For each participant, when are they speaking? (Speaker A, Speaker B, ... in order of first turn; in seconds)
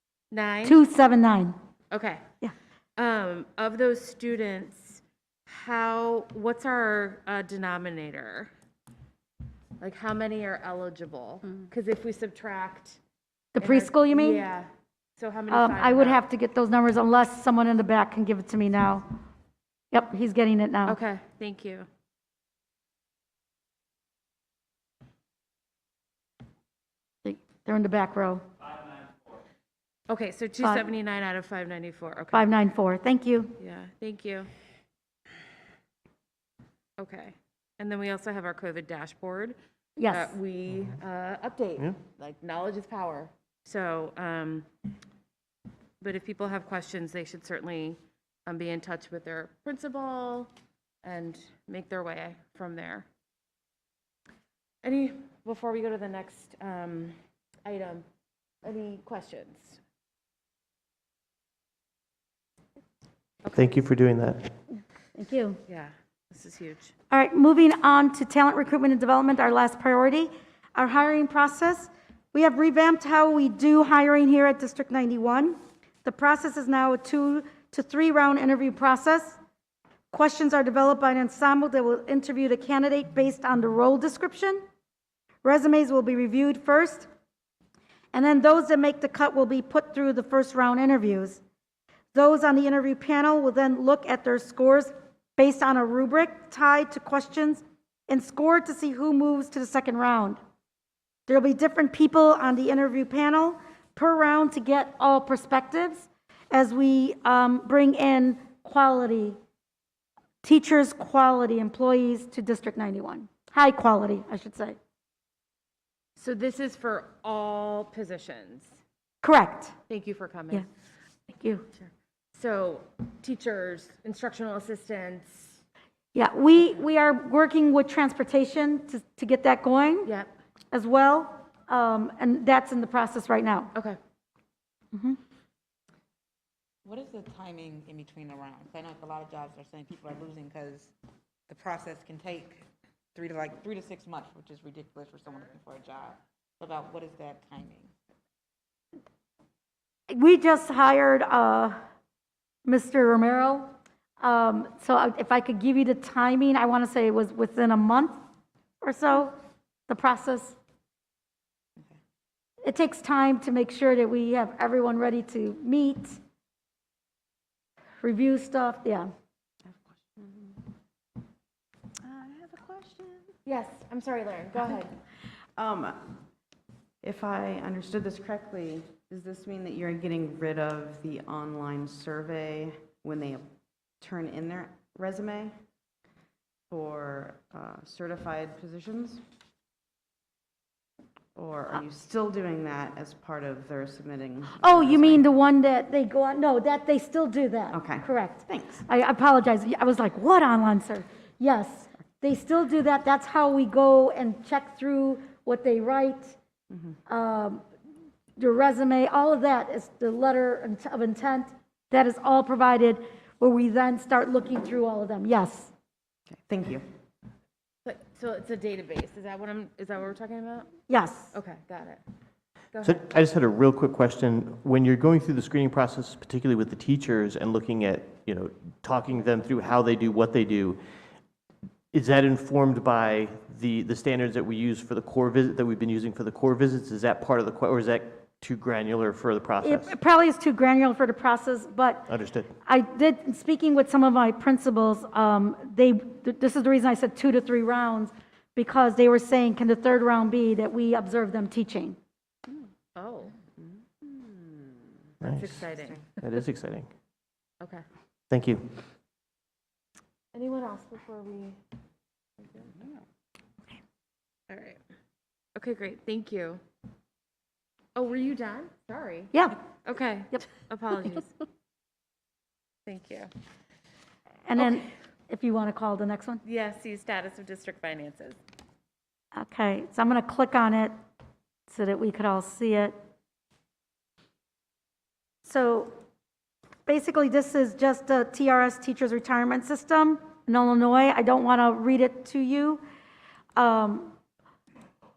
Speaker A: 0.3-0.8, 1.9-2.2, 3.0-8.5, 9.8-13.0, 13.6-16.2, 20.9-21.9, 30.1-32.5, 33.6-34.5, 37.0-39.6, 40.1-44.7, 46.0-50.5, 51.0-53.0, 54.8-58.0, 58.6-59.8, 65.7-66.9, 116.2-118.8, 119.9-120.7, 121.7-125.6, 130.0-130.3, 173.4-174.9, 217.8-220.7, 221.3-222.0, 222.7-223.0, 252.9-253.3, 255.3-256.0, 260.3-261.6, 262.4-262.7, 264.5-264.8, 265.6-266.6, 267.9-271.3, 272.9-273.3, 276.4-278.4
Speaker B: 0.6-1.6, 13.5-14.4, 15.5-19.1, 19.9-21.0, 27.2-28.4, 30.6-30.9, 32.3-33.5, 40.0-40.4, 65.1-65.6, 67.1-79.4, 80.1-84.6, 85.4-87.1, 88.1-91.4, 92.1-100.4, 101.3-109.4, 110.4-114.8, 119.2-119.7, 121.3-121.7, 126.1-130.1, 130.7-133.7, 134.9-135.2, 150.1-151.8, 152.6-158.2, 158.8-159.3, 159.9-160.6, 162.6-166.2, 168.0-169.1, 194.6-206.4, 207.1-207.6, 208.4-215.7, 220.9-221.3, 239.6-242.1, 242.7-252.0, 274.4-276.4, 279.3-280.9, 281.7-282.9, 285.4-285.9, 286.9-292.8, 293.6-294.1
Speaker C: 63.5-64.5, 222.8-230.8, 231.9-239.9, 242.1-242.5, 255.2-256.9, 258.3-258.7
Speaker D: 136.8-140.9, 141.5-147.9
Speaker E: 169.7-170.6, 172.0-173.3, 175.6-176.2, 177.0-183.4, 184.0-185.5, 186.7-189.2, 191.3-195.2, 197.7-198.8, 216.3-216.8, 254.0-254.5